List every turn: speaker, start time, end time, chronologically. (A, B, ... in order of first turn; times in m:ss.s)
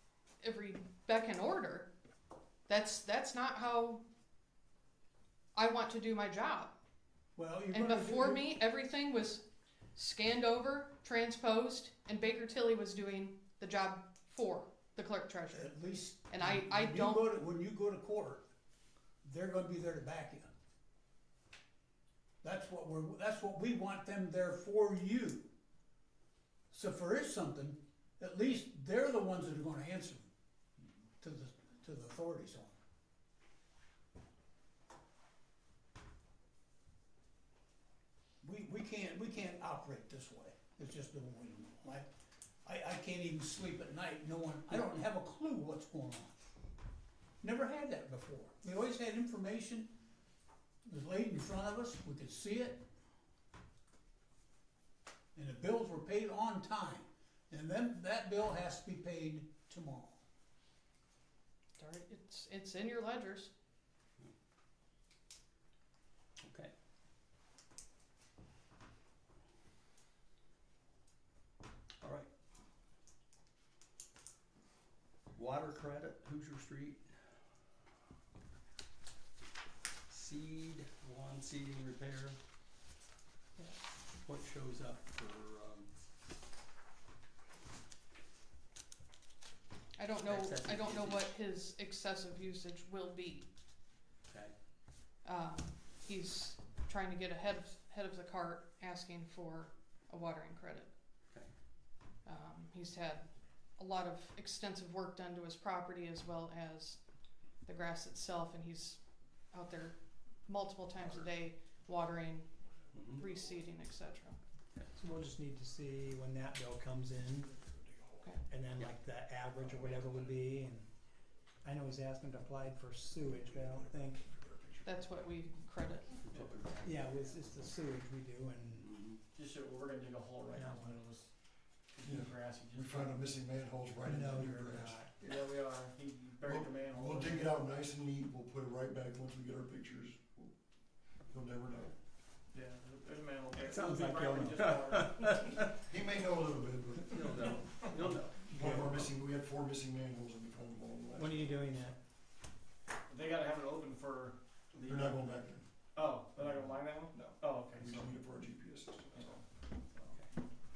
0:00.4-0:01.9 A
0:02.7-0:04.0 A
0:05.5-0:06.7 A
0:07.4-0:08.5 B
0:07.7-0:09.4 A
0:09.9-0:15.7 A
0:15.5-0:18.4 B
0:16.3-0:17.2 A
0:19.2-0:20.5 B
0:22.4-0:25.5 B
0:26.7-0:30.3 B
0:31.2-0:32.8 B
0:38.4-0:42.1 B
0:42.6-0:46.3 B
0:47.4-0:49.9 B
0:50.8-0:52.8 B
0:55.3-1:00.2 B
1:01.8-1:03.5 A
1:06.4-1:06.7 C
1:12.0-1:12.3 C
1:15.3-1:17.0 C
1:20.1-1:22.4 C
1:24.2-1:25.9 C
1:30.0-1:33.5 A
1:30.2-1:31.3 C
1:34.3-1:34.5 C
1:35.2-1:40.9 A
1:42.2-1:47.0 A
1:47.6-1:49.0 A
1:49.5-1:52.5 A
1:51.0-1:51.3 C
1:52.9-1:53.2 C
1:53.2-1:54.4 A
1:54.9-1:57.6 D
1:57.7-1:58.0 E
1:58.4-2:00.9 D
2:01.6-2:04.3 D
2:04.2-2:04.8 E
2:04.8-2:06.2 A
2:06.2-2:07.5 C
2:06.8-2:08.9 D
2:08.7-2:09.2 C
2:09.3-2:11.3 F
2:10.5-2:11.0 D
2:11.9-2:13.2 F
2:12.0-2:15.4 E
2:14.0-2:15.1 D
2:14.4-2:17.6 F
2:16.4-2:20.5 E
2:21.3-2:21.9 E
2:22.5-2:25.2 F
2:23.6-2:24.8 D
2:24.7-2:25.6 C
2:25.4-2:27.2 E
2:27.1-2:28.6 C
2:28.5-2:29.0 D
2:28.5-2:31.5 E
2:31.1-2:32.0 D
2:33.1-2:35.2 F
2:34.8-2:35.6 E
2:35.9-2:38.1 F
2:37.1-2:39.4 E
2:39.1-2:40.2 F